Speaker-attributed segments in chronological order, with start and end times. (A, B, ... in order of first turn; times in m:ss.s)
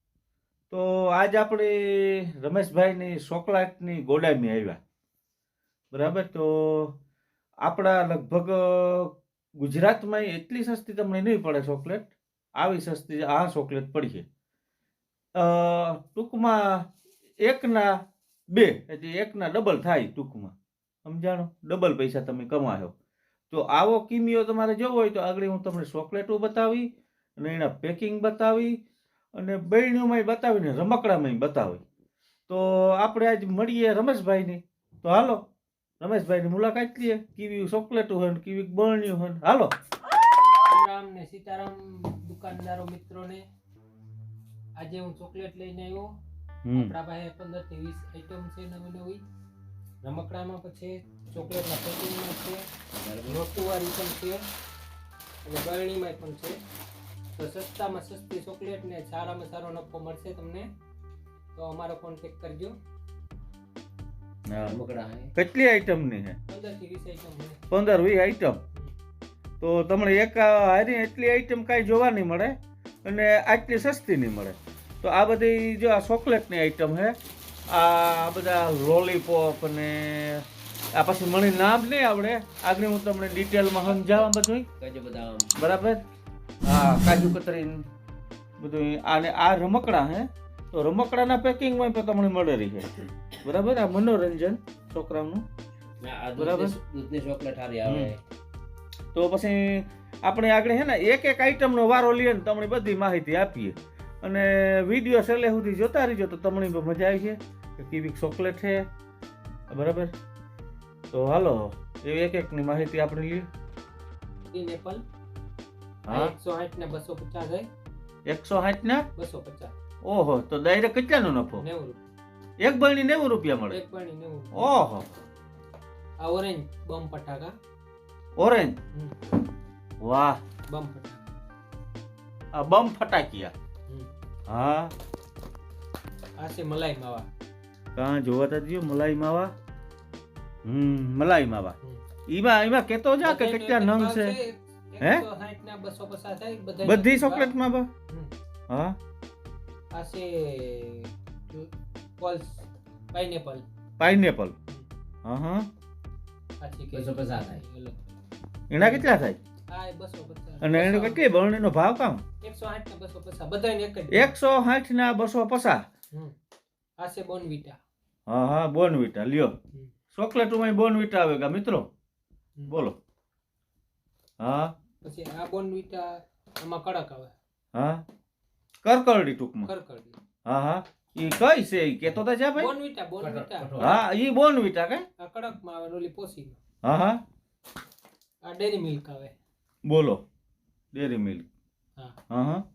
0:00.7-0:04.8 A
0:05.9-0:07.0 A
0:07.6-0:14.2 A
0:15.4-0:20.5 A
0:21.0-0:22.9 A
0:23.5-0:28.8 A
0:29.4-0:31.8 A
0:32.5-0:35.4 A
0:36.0-0:39.7 A
0:40.7-0:43.4 B
0:44.8-0:46.1 B
0:46.6-0:47.0 A
0:46.7-0:49.2 B
0:50.0-0:52.6 B
0:53.0-0:53.4 C
0:53.3-0:54.5 B
0:55.4-0:56.6 B
0:57.4-1:00.7 B
1:01.5-1:02.8 B
1:04.5-1:04.8 A
1:04.6-1:05.3 C
1:05.4-1:06.4 A
1:06.5-1:07.6 B
1:07.7-1:08.6 A
1:09.6-1:17.2 A
1:17.7-1:24.7 A
1:24.8-1:25.5 C
1:25.6-1:26.0 A
1:26.6-1:27.9 A
1:28.6-1:35.5 A
1:36.0-1:38.2 C
1:36.4-1:36.8 A
1:37.8-1:38.1 A
1:39.1-1:48.9 A
1:49.7-1:50.1 A
1:51.1-1:53.5 A
1:54.5-1:55.0 B
1:56.1-1:56.3 A
1:56.1-1:57.7 B
1:58.3-1:59.1 A
1:59.2-1:59.7 B
2:00.0-2:01.6 A
2:01.6-2:02.1 B
2:02.6-2:03.8 A
2:03.7-2:04.8 B
2:04.5-2:05.1 A
2:06.2-2:07.6 B
2:08.4-2:08.8 A
2:10.0-2:10.4 A
2:10.7-2:11.3 B
2:12.5-2:13.5 A
2:14.5-2:14.9 A
2:16.4-2:17.3 B
2:18.0-2:19.5 A
2:20.6-2:21.8 A
2:22.3-2:24.4 A
2:23.2-2:27.6 B
2:25.0-2:25.2 A
2:26.8-2:27.9 A
2:28.7-2:29.0 A
2:29.9-2:33.6 B
2:34.0-2:34.6 A
2:35.2-2:35.7 A
2:36.6-2:38.1 B
2:36.9-2:37.6 C
2:38.7-2:39.4 A
2:38.8-2:39.1 B
2:39.7-2:41.3 B
2:40.6-2:42.2 A
2:42.4-2:44.4 B
2:44.1-2:45.8 A
2:47.0-2:47.8 B
2:48.3-2:49.6 A
2:50.1-2:51.9 A
2:52.7-2:53.0 A
2:54.4-2:54.7 A
2:55.0-2:57.3 B
2:57.7-2:58.0 A
2:58.8-2:59.7 A
2:59.6-3:00.2 B
3:00.5-3:02.7 A
3:02.6-3:03.9 B
3:03.2-3:04.0 C
3:03.8-3:05.1 A
3:05.2-3:06.6 B
3:06.8-3:07.2 A
3:08.4-3:09.3 B
3:09.8-3:10.2 A
3:10.9-3:11.5 A
3:12.3-3:12.6 A